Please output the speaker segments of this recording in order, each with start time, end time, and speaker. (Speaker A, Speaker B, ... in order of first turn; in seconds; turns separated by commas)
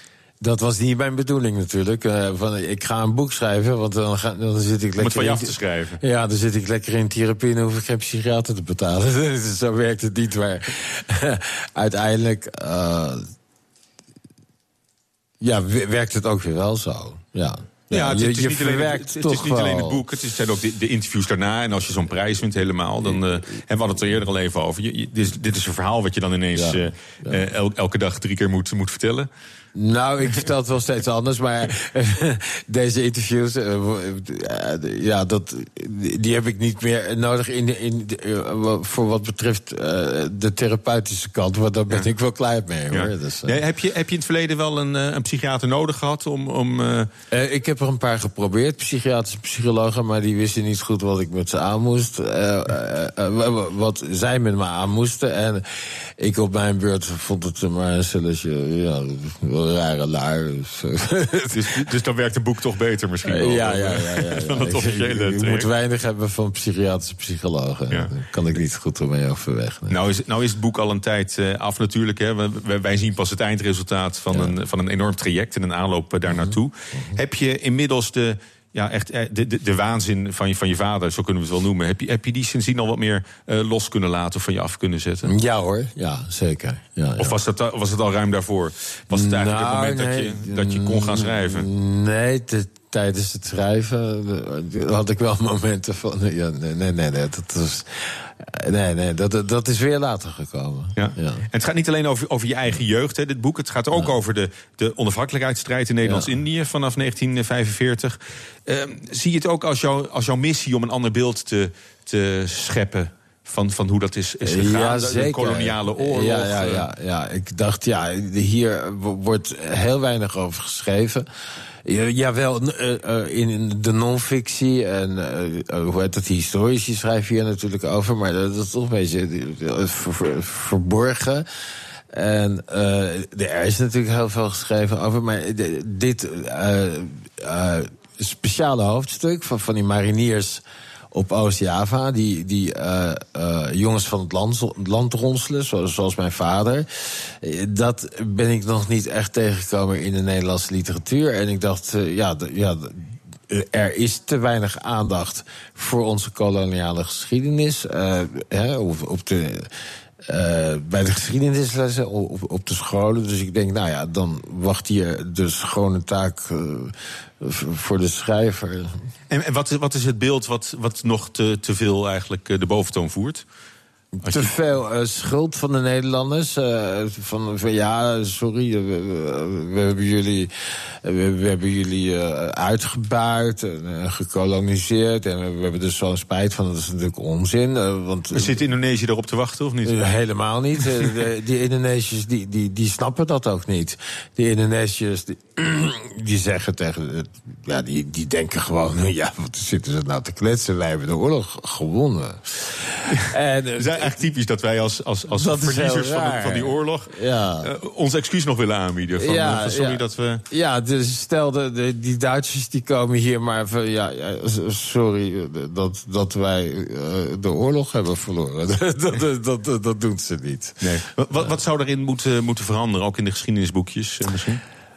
Speaker A: 0.4-13.3, Speaker B: 5.0-6.0, Speaker A: 15.4-20.0, Speaker B: 17.9-29.3, Speaker A: 26.6-27.4, Speaker A: 29.8-43.6, Speaker B: 42.9-47.1, Speaker A: 47.3-61.9, Speaker B: 61.5-65.7, Speaker A: 63.3-70.0, Speaker B: 69.9-85.3, Speaker A: 76.3-77.2, Speaker A: 85.3-87.4, Speaker B: 87.2-91.7, Speaker A: 89.1-101.4, Speaker B: 101.0-116.8, Speaker A: 106.0-106.3, Speaker A: 114.4-121.3, Speaker A: 121.8-131.5, Speaker A: 132.1-159.7, Speaker A: 160.3-169.0, Speaker B: 169.3-173.4, Speaker A: 174.2-180.5, Speaker A: 181.0-188.6, Speaker B: 188.3-190.0, Speaker A: 189.8-204.2, Speaker B: 203.8-210.4, Speaker A: 205.3-207.7, Speaker A: 209.2-220.8, Speaker B: 220.8-224.6